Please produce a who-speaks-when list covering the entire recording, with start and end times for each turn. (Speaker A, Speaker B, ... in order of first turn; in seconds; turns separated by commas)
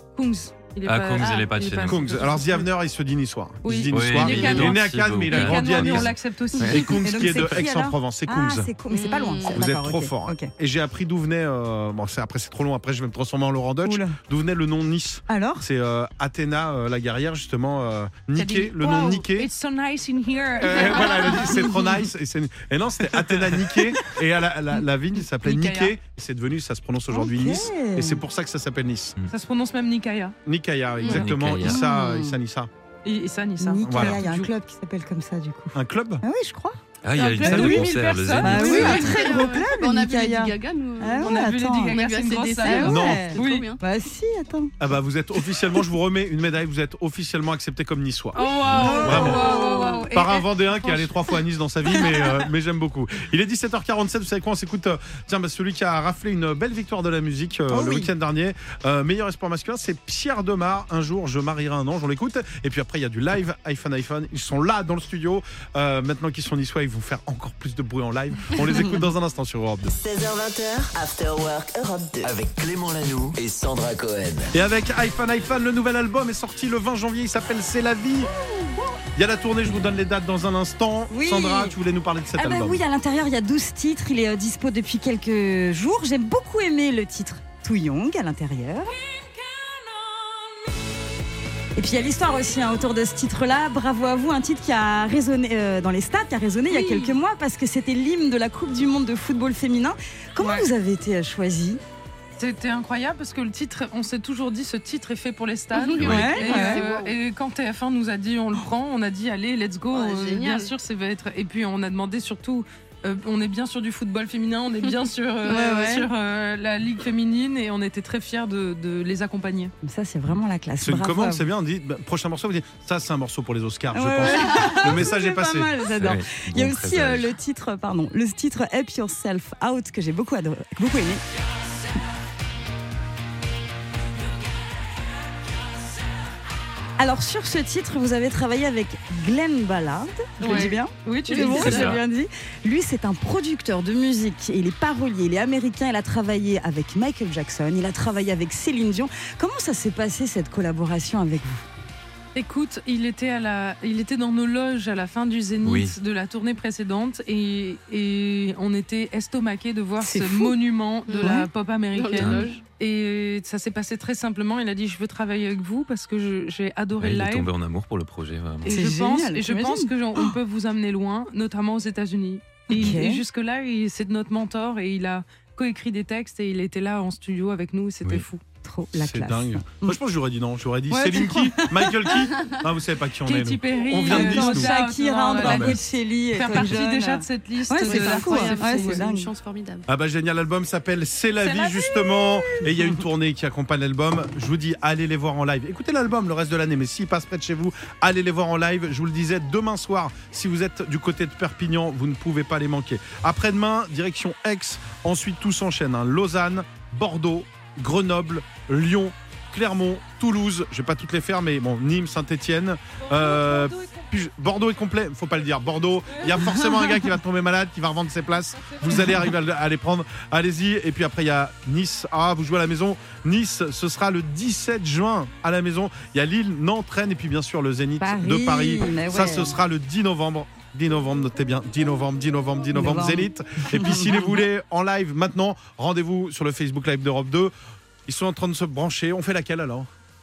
Speaker A: 0.1-2.7, Speaker B: 0.8-2.3, Speaker C: 1.2-1.5, Speaker D: 1.8-8.7, Speaker A: 3.6-6.9, Speaker B: 3.9-7.7, Speaker E: 6.5-10.5, Speaker C: 8.9-9.7, Speaker D: 9.5-19.5, Speaker E: 13.8-14.2, Speaker E: 15.3-15.7, Speaker A: 18.3-21.8, Speaker D: 20.6-29.2, Speaker E: 21.4-22.0, Speaker A: 25.4-25.9, Speaker E: 27.1-28.2, Speaker A: 29.3-30.4, Speaker D: 30.4-32.7, Speaker C: 31.0-31.3, Speaker B: 31.0-31.8, Speaker E: 31.6-32.4, Speaker A: 33.0-34.5, Speaker E: 33.6-36.8, Speaker D: 33.8-34.2, Speaker D: 35.7-36.2, Speaker B: 37.0-39.2, Speaker A: 37.1-39.4, Speaker E: 37.4-42.0, Speaker C: 38.6-43.8, Speaker A: 41.2-43.6, Speaker E: 42.6-44.7, Speaker D: 42.8-43.3, Speaker D: 44.8-48.4, Speaker A: 48.3-51.1, Speaker E: 48.6-50.1, Speaker D: 49.0-69.9, Speaker E: 51.9-52.4, Speaker E: 57.7-58.1, Speaker E: 68.6-69.1, Speaker F: 69.9-72.3, Speaker G: 72.2-74.5, Speaker D: 74.5-78.3, Speaker D: 79.1-82.8, Speaker E: 81.1-81.8, Speaker E: 82.3-89.0, Speaker A: 88.8-90.8, Speaker E: 91.7-101.8, Speaker A: 96.7-97.2, Speaker A: 100.4-100.7, Speaker A: 102.4-119.7, Speaker C: 105.7-107.2, Speaker B: 106.0-106.3, Speaker E: 106.0-106.8, Speaker C: 109.9-110.7, Speaker E: 115.5-116.1, Speaker C: 115.5-116.0, Speaker E: 119.8-121.5, Speaker D: 120.8-125.7, Speaker E: 123.9-131.2, Speaker B: 125.9-127.3, Speaker E: 137.0-151.7, Speaker A: 140.4-141.9, Speaker C: 140.4-140.8, Speaker C: 141.3-141.7, Speaker B: 141.4-142.0, Speaker A: 152.3-167.5, Speaker B: 155.6-155.9, Speaker E: 160.0-160.5, Speaker C: 161.1-162.6, Speaker E: 161.2-161.5, Speaker B: 162.2-162.4, Speaker B: 167.0-168.8, Speaker E: 168.6-170.3, Speaker A: 168.6-178.4, Speaker E: 172.7-173.2, Speaker E: 178.6-180.0, Speaker D: 178.9-184.7, Speaker A: 180.9-181.4, Speaker E: 181.0-182.3, Speaker A: 183.2-189.0, Speaker E: 184.0-189.3, Speaker D: 185.4-185.8, Speaker C: 187.8-189.9, Speaker D: 189.9-237.5, Speaker A: 191.4-192.6, Speaker A: 213.0-214.1, Speaker A: 216.1-216.4, Speaker E: 216.4-217.1, Speaker A: 218.6-219.1, Speaker E: 228.0-229.6, Speaker E: 232.7-234.4, Speaker D: 238.1-239.9